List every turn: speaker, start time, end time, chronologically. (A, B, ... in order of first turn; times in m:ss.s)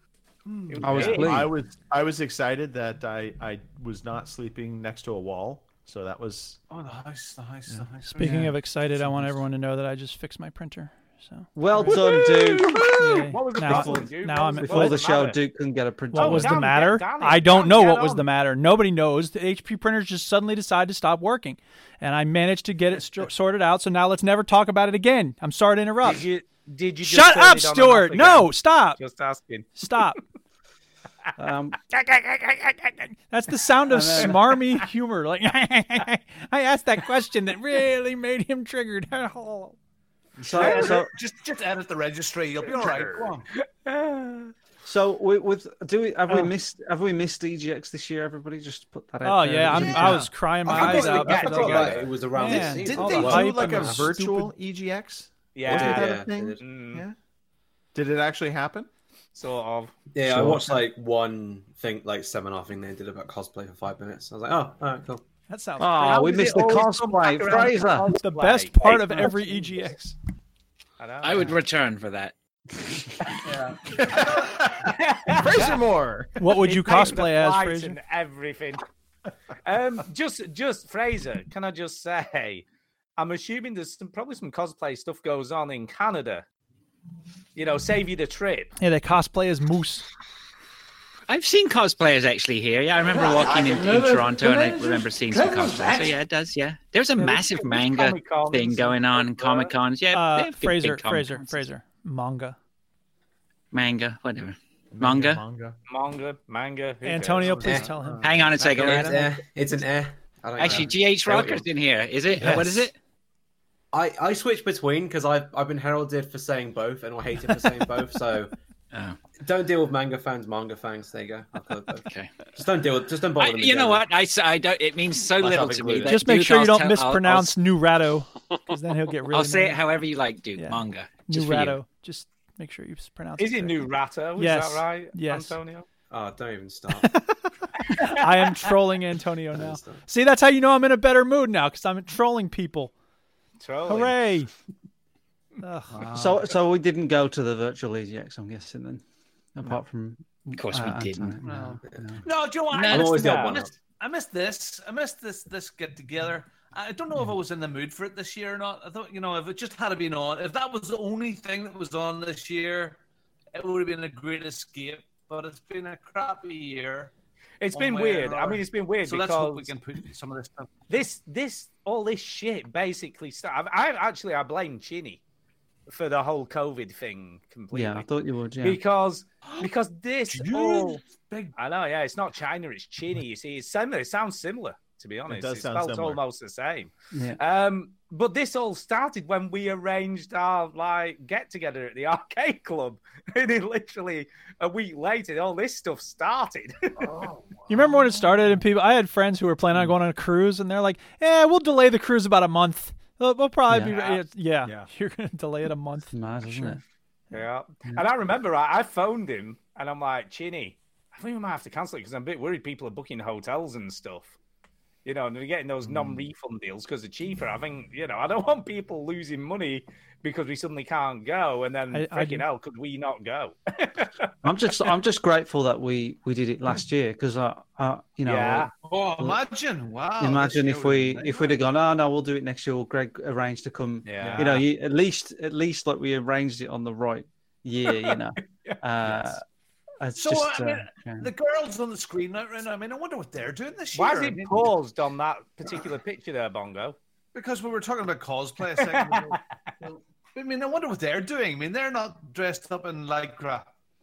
0:00.4-0:01.1 A
0:00.7-0:01.4 B
0:00.8-0:01.5 C
0:00.9-0:06.6 D
0:06.7-0:08.4 A
0:08.1-0:11.5 E
0:08.2-0:08.6 C
0:11.5-0:12.8 C
0:11.8-0:13.2 A
0:12.9-0:15.4 B
0:12.9-0:15.0 E
0:13.6-0:16.6 C
0:16.1-0:26.3 E
0:16.1-0:18.2 B
0:26.0-0:30.1 B
0:27.0-0:29.0 E
0:29.8-0:30.2 E
0:31.4-0:31.8 C
0:31.8-0:34.9 B
0:33.3-0:39.8 E
0:33.9-0:34.4 C
0:40.4-0:41.1 C
0:40.4-0:43.5 A
0:42.6-0:43.3 B
0:43.8-0:44.5 B
0:44.8-0:50.3 C
0:49.2-0:54.5 E
0:49.8-0:51.2 A
0:50.6-0:54.1 F
0:50.6-0:52.6 B
0:52.8-0:57.2 D
0:55.5-0:57.0 B
0:55.6-0:56.6 F
0:57.9-0:58.9 D
0:59.3-0:59.9 B
1:00.1-1:05.2 F
1:05.5-1:06.2 E
1:05.8-1:08.1 C
1:05.8-1:09.6 B
1:08.2-1:10.1 E
1:11.0-1:11.6 B
1:11.2-1:12.8 G
1:13.5-1:14.4 A
1:13.9-1:16.4 D
1:14.8-1:15.8 B
1:16.4-1:18.0 E
1:16.5-1:18.8 B
1:19.6-1:22.6 B
1:23.2-1:26.4 B
1:27.6-1:28.7 B
1:28.8-1:30.0 E
1:31.3-1:41.6 G
1:37.2-1:39.7 B
1:40.1-1:42.6 E
1:43.7-1:45.4 G
1:44.9-1:45.8 D
1:45.9-1:47.8 B
1:47.0-1:49.1 E
1:47.5-1:51.6 F
1:48.2-1:49.3 G
1:50.6-1:52.9 G
1:52.4-1:52.9 E
1:53.9-1:58.5 F
1:58.9-1:59.2 G
1:59.4-2:04.0 F
2:02.0-2:02.3 G
2:03.4-2:07.5 G
2:05.4-2:06.1 F
2:05.4-2:06.0 D
2:06.0-2:09.9 E
2:09.3-2:11.8 G
2:10.6-2:15.6 E
2:13.4-2:15.8 B
2:16.1-2:17.1 F
2:18.0-2:22.9 E
2:18.0-2:18.5 B
2:19.5-2:20.0 F
2:23.6-2:24.4 B
2:23.9-2:24.5 E
2:25.6-2:26.1 E
2:25.9-2:26.3 A
2:26.1-2:29.0 C
2:29.6-2:32.2 C
2:30.5-2:31.4 G
2:32.2-2:43.0 A
2:32.7-2:33.5 G
2:32.9-2:33.7 F
2:43.5-2:47.1 A
2:47.6-2:49.7 B
2:47.7-2:50.8 A
2:50.9-2:55.2 B
2:55.9-2:58.0 B
2:57.7-2:58.8 C
2:58.6-3:01.0 B
3:00.3-3:01.6 A
3:01.6-3:17.0 B
3:05.3-3:06.2 D
3:07.1-3:07.4 C
3:17.7-3:26.8 E
3:23.7-3:24.0 C
3:23.9-3:24.2 B
3:26.1-3:26.8 C
3:27.3-3:34.3 B
3:35.0-3:44.1 B
3:41.9-3:42.4 E
3:44.4-3:49.4 C
3:48.2-3:48.7 B
3:48.8-3:51.6 A
3:50.2-3:59.4 C
3:54.0-3:54.4 B
3:54.2-3:54.6 D
4:00.0-4:01.3 C
4:00.2-4:04.7 A
4:03.9-4:07.0 B
4:07.3-4:13.7 A
4:08.8-4:09.3 B